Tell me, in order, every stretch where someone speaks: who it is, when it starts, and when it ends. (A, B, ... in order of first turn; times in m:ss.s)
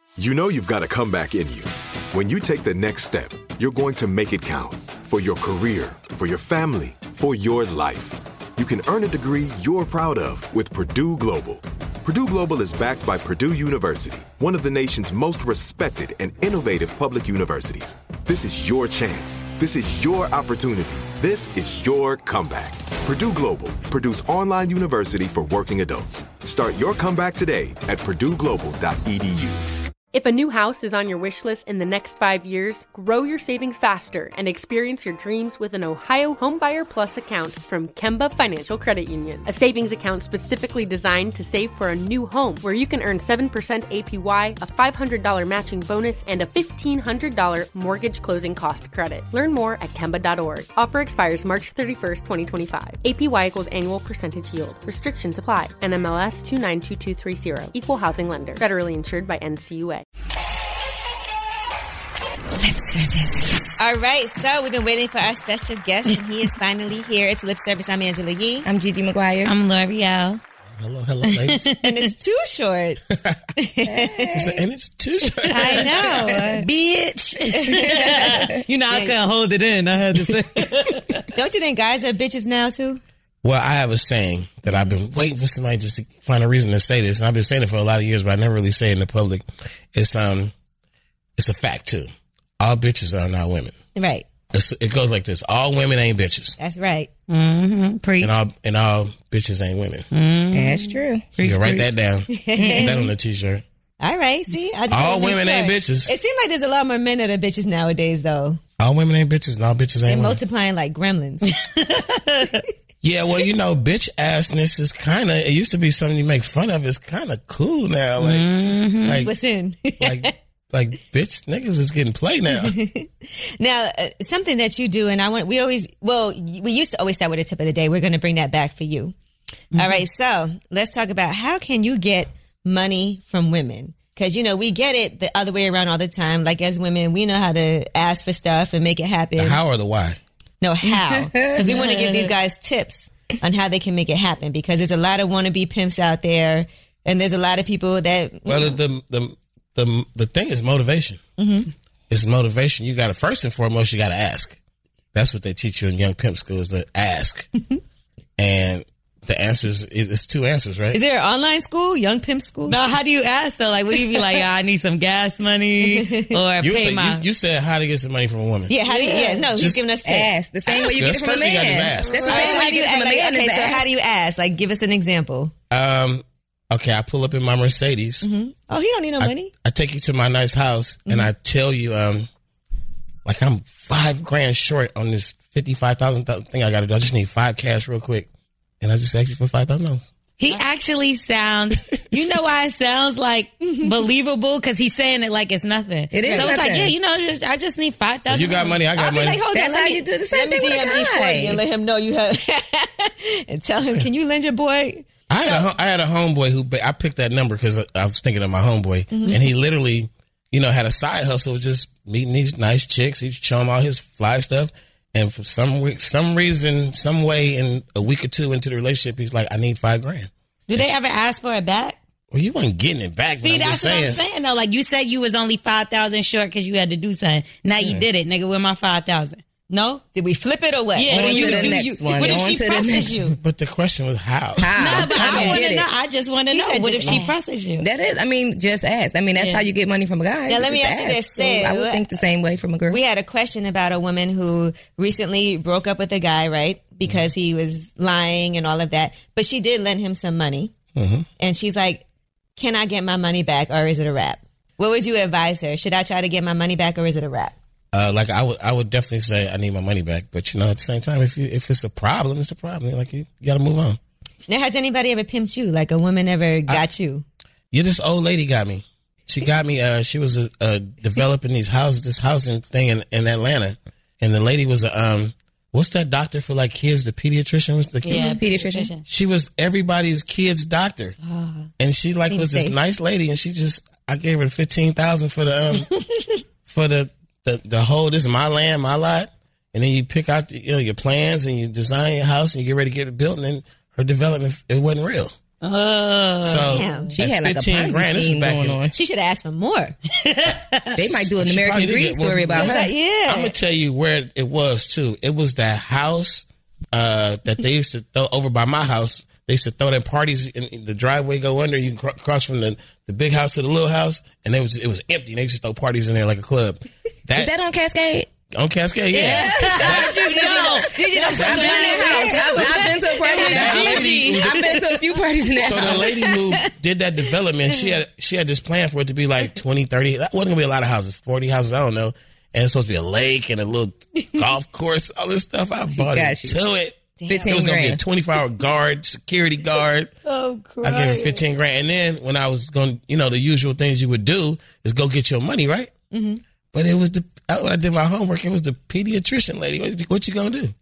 0:00.2-0:29.7 A
0:30.1-1:00.0 B
1:03.8-1:08.7 C
1:08.7-1:09.5 D
1:09.4-1:10.4 E
1:10.8-1:11.7 F
1:11.3-1:12.1 E
1:11.8-1:13.0 C
1:13.1-1:13.4 F
1:13.6-1:14.4 C
1:13.8-1:14.6 D
1:14.3-1:15.9 F
1:15.5-1:16.6 C
1:15.5-1:21.2 E
1:16.0-1:16.5 D
1:17.4-1:19.2 C
1:21.3-1:23.0 C
1:23.4-1:30.5 F
1:31.4-1:32.1 F
1:32.6-1:33.7 F
1:33.9-1:34.3 C
1:34.5-1:36.6 F
1:36.6-1:37.1 C
1:37.3-1:38.3 E
1:38.2-1:40.1 F
1:40.1-1:41.9 E
1:40.5-1:41.2 D
1:41.4-1:43.6 F
1:42.3-1:43.1 C
1:42.6-1:43.1 D
1:44.0-1:48.6 C
1:44.9-1:46.1 F
1:48.8-1:50.4 F
1:50.1-1:51.5 C
1:51.5-1:52.6 E
1:53.0-1:58.5 F
1:58.2-1:59.3 E
1:59.0-1:59.3 F
1:59.2-2:00.3 C
2:00.0-2:02.8 F
2:02.5-2:09.2 C
2:09.7-2:19.6 C
2:19.4-2:20.2 F
2:20.6-2:28.8 C
2:21.2-2:21.5 D
2:21.6-2:22.3 E
2:28.5-2:31.2 F
2:31.4-2:31.7 C
2:32.1-2:34.6 F
2:35.1-2:37.5 F
2:38.4-2:41.0 F
2:40.9-2:42.8 C
2:42.7-2:47.2 E
2:45.8-2:46.4 C
2:46.6-2:48.7 F
2:48.7-2:50.3 C
2:48.9-2:49.5 E
2:49.5-2:49.8 F
2:50.0-2:53.9 D
2:50.7-2:52.3 F
2:52.0-2:55.5 C
2:52.2-2:52.7 E
2:55.7-2:58.3 F
2:58.2-2:59.5 C
2:59.2-3:02.3 F
3:03.2-3:08.3 F
3:08.8-3:10.1 F
3:10.4-3:18.8 E
3:16.1-3:17.0 D
3:16.2-3:16.6 C
3:18.2-3:19.4 F
3:19.0-3:25.7 C
3:19.5-3:21.6 D
3:23.8-3:24.1 F
3:25.3-3:40.9 F
3:29.1-3:29.4 C
3:40.7-3:42.0 E
3:42.3-3:44.2 F
3:43.4-3:50.0 E
3:47.8-3:48.1 F
3:50.1-3:52.4 C
3:50.9-3:53.4 E
3:51.1-3:53.3 D
3:53.4-3:55.1 F
3:54.6-3:55.9 D
3:54.8-3:57.9 E
3:55.1-3:55.6 C
3:56.5-3:57.3 C
3:57.8-4:03.0 D
3:59.4-3:59.6 E
4:00.5-4:02.2 C
4:02.9-4:10.7 C
4:10.9-4:11.2 F
4:11.4-4:12.0 C
4:12.6-4:17.6 C
4:17.9-4:24.0 F
4:24.5-4:27.2 C
4:27.7-4:38.4 F
4:38.0-4:39.0 E
4:38.1-4:38.9 D
4:39.1-4:41.2 F
4:41.4-4:41.6 C
4:41.8-4:45.9 F
4:42.3-4:42.8 C
4:46.7-4:55.4 F
4:55.6-4:57.0 E
4:56.4-4:58.9 F
4:56.7-4:57.1 C
4:57.1-4:58.9 D
4:58.9-5:00.0 C
5:00.2-5:00.9 E
5:00.9-5:02.9 D
5:01.0-5:17.5 F
5:02.6-5:03.5 C
5:17.4-5:18.3 D
5:18.5-5:20.2 F
5:19.1-5:24.8 E
5:19.2-5:26.1 D
5:19.7-5:23.9 C
5:23.4-5:24.6 F
5:25.6-5:40.1 F
5:25.8-5:26.7 C
5:35.9-5:36.6 D
5:37.2-5:37.7 C
5:37.3-5:38.0 D
5:40.3-5:41.4 C
5:40.8-5:45.9 F
5:46.1-5:46.4 C
5:46.7-5:50.7 F